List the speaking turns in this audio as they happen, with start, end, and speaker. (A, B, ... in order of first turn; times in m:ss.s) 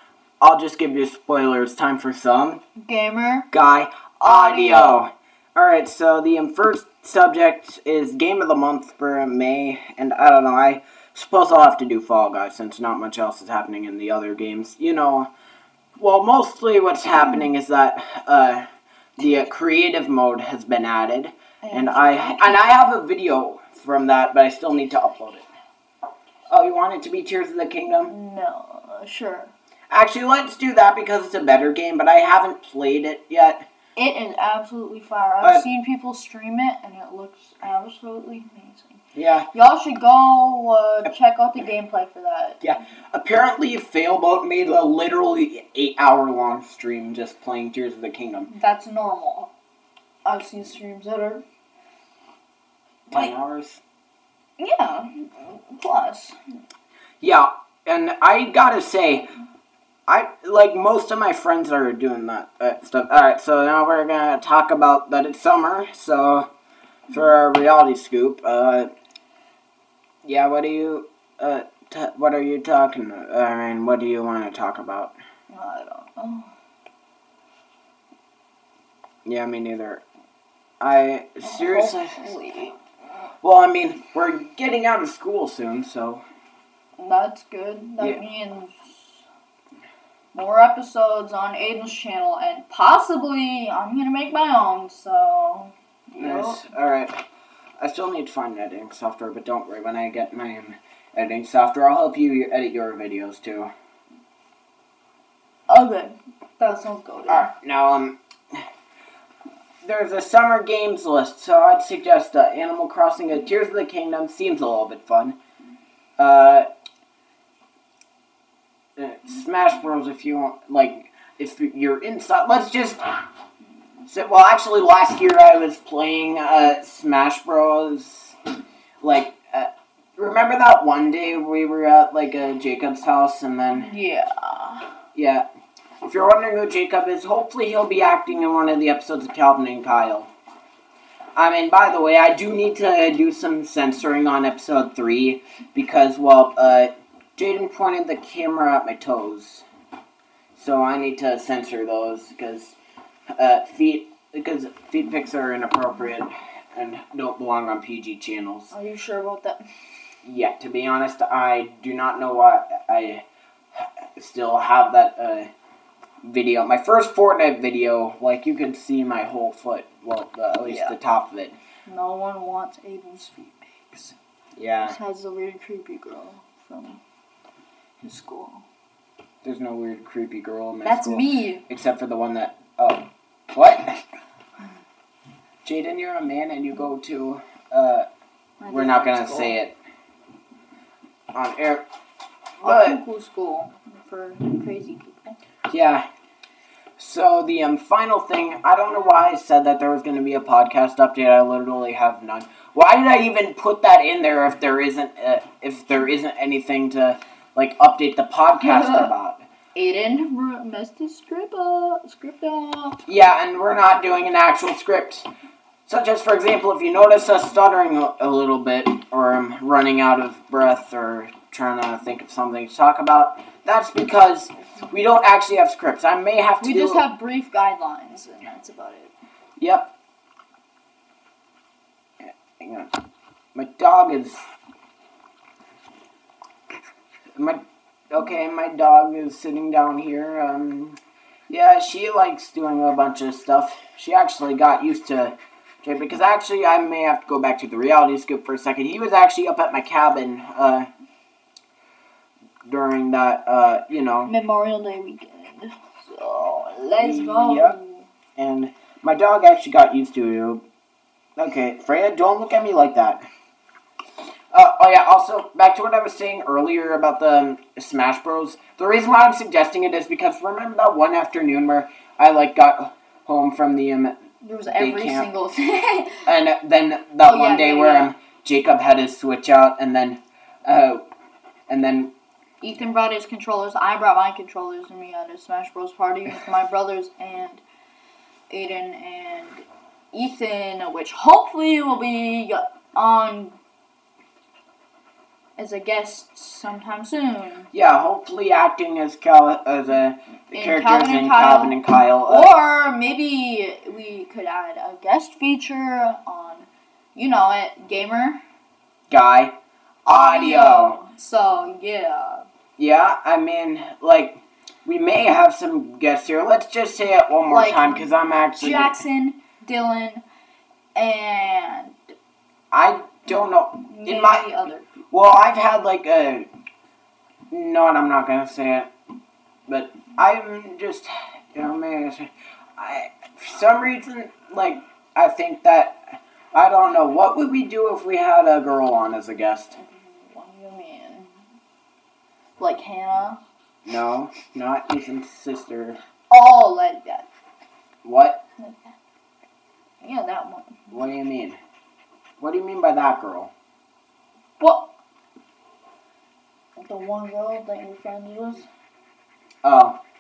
0:00.4-0:02.6 A
0:02.8-0:03.5 B
0:03.5-0:15.3 A
0:04.2-0:05.0 B
0:16.0-0:18.6 A
0:19.2-0:25.4 A
0:19.2-0:19.4 B
0:21.6-0:22.7 B
0:26.5-0:28.1 A
0:28.1-0:29.5 B
0:29.9-0:33.6 A
0:34.0-0:39.0 B
0:39.1-0:39.5 A
0:39.5-0:42.6 B
0:42.6-0:48.5 A
0:48.5-0:49.5 B
0:50.2-0:51.4 B
0:53.1-0:53.8 A
0:54.6-0:56.4 B
0:57.2-0:59.3 A
1:00.1-1:06.5 A
1:07.1-1:08.9 A
1:10.2-1:15.1 A
1:15.5-1:16.5 B
1:19.2-1:20.0 A
1:20.8-1:22.3 A
1:21.4-1:22.8 B
1:23.4-1:26.2 A
1:27.0-1:29.2 B
1:30.3-1:36.6 B
1:36.2-1:37.2 A
1:37.8-1:43.7 A
1:45.7-1:47.5 B
1:47.3-1:48.2 A
1:49.8-1:55.4 A
1:56.2-1:56.6 A
1:59.0-2:03.0 A
2:04.1-2:08.4 A
2:09.0-2:13.9 A
2:13.7-2:14.9 B
2:15.1-2:15.5 A
2:16.0-2:20.3 A
2:21.4-2:29.6 A
2:30.5-2:32.8 A
2:33.4-2:38.7 A
2:38.7-2:39.6 B
2:40.2-2:43.2 A
2:44.2-2:45.5 A
2:46.2-2:51.5 A
2:50.6-2:50.9 B
2:51.8-2:54.2 B
2:54.6-2:55.0 A
2:54.8-2:57.0 B
2:58.0-2:58.6 B
2:59.4-3:04.0 A
3:00.8-3:01.6 B
3:05.6-3:08.0 A
3:08.6-3:09.6 B
3:08.7-3:09.8 A
3:11.3-3:11.8 A
3:12.6-3:13.0 A
3:12.6-3:15.4 B
3:15.7-3:16.0 A
3:17.0-3:29.4 A
3:28.6-3:29.1 B
3:29.7-3:33.0 B
3:33.1-3:35.3 A
3:35.9-3:47.0 A
3:46.6-3:49.1 B
3:49.6-3:49.9 A
3:52.6-3:52.9 A
3:53.5-3:54.4 A
3:57.4-4:10.9 A
4:12.6-4:14.3 A
4:14.2-4:18.1 B
4:17.0-4:17.8 A
4:18.4-4:20.6 A
4:21.4-4:23.3 A
4:24.5-4:34.2 A
4:34.4-4:36.3 B
4:34.7-4:35.3 A
4:36.2-4:41.0 A
4:37.2-4:38.1 B
4:41.7-4:42.1 A
4:42.6-4:47.6 B
4:48.5-4:53.6 B
4:55.6-4:57.7 B
4:57.7-5:02.5 A
5:00.5-5:08.4 B
5:09.1-5:09.5 A
5:10.0-5:11.0 A
5:10.0-5:12.4 B
5:12.8-5:18.9 A
5:17.5-5:20.2 B
5:20.9-5:22.0 B
5:22.7-5:24.5 A
5:23.9-5:24.9 B
5:25.1-5:26.5 A
5:27.5-5:28.9 A
5:29.7-5:39.8 A
5:39.8-5:41.3 B
5:42.6-5:43.4 B
5:43.8-5:46.0 A
5:46.3-5:47.3 B
5:48.0-5:48.4 A
5:48.6-5:48.9 B
5:50.0-5:51.0 B
5:50.9-5:51.6 A
5:52.4-5:53.5 A
5:54.6-5:54.9 B
5:56.8-5:58.7 B
5:59.6-6:00.0 A